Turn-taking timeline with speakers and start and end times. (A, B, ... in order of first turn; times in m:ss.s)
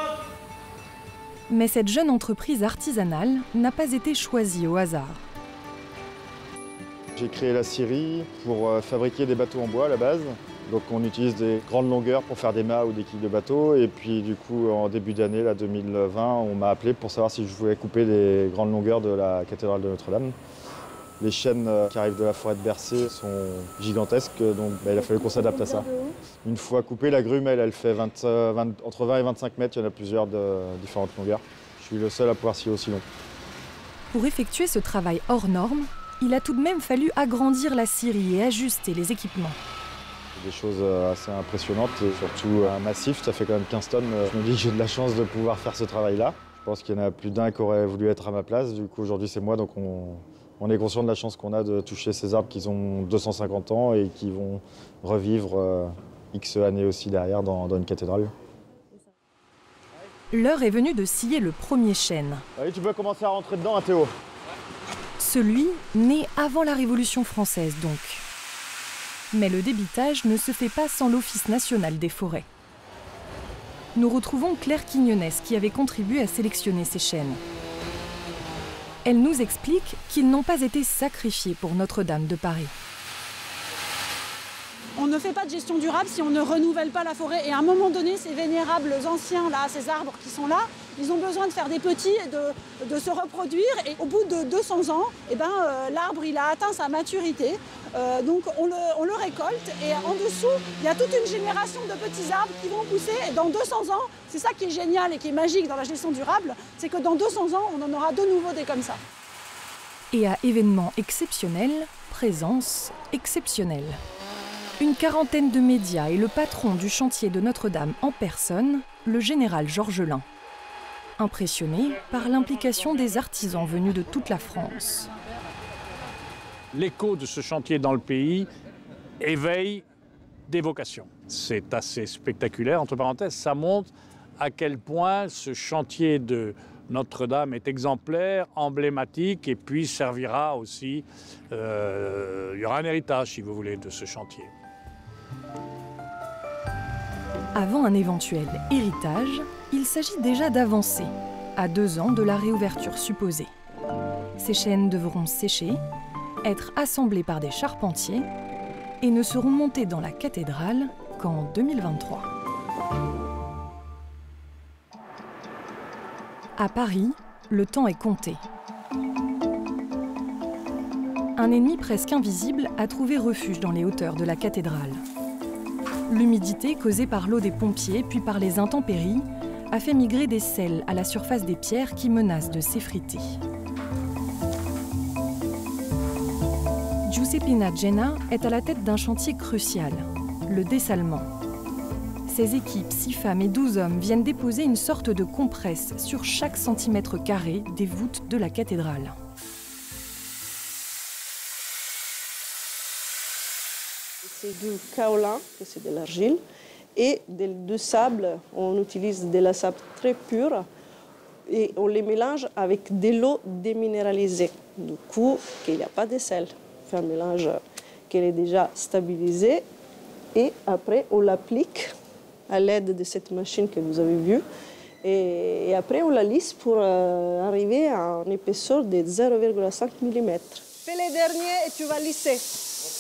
0:01.5-0:05.3 A
0:07.2-0:20.4 B
0:21.2-0:33.0 B
0:34.1-0:39.6 A
0:40.4-0:58.3 B
1:00.3-1:02.5 A
1:02.6-1:04.1 B
1:05.2-1:08.2 A
1:09.3-1:12.5 A
1:14.0-1:17.4 A
1:19.0-1:22.7 A
1:25.0-1:49.0 C
1:50.1-1:54.0 A
1:54.8-2:00.3 A
2:01.2-2:05.1 A
2:06.7-2:08.5 D
2:09.2-2:09.8 D
2:10.5-2:24.5 D
2:27.6-2:33.5 A
2:34.4-2:35.8 A
2:36.4-2:38.3 A
2:39.0-2:42.3 A
2:46.6-2:48.4 A
2:51.4-2:55.0 A
2:56.1-3:03.4 A
3:07.0-3:11.3 A
3:12.3-3:19.2 A
3:24.2-3:26.4 E
3:27.0-3:30.7 E
3:31.5-3:39.6 E
3:40.4-3:41.9 E
3:42.5-3:44.4 E
3:45.0-3:52.4 E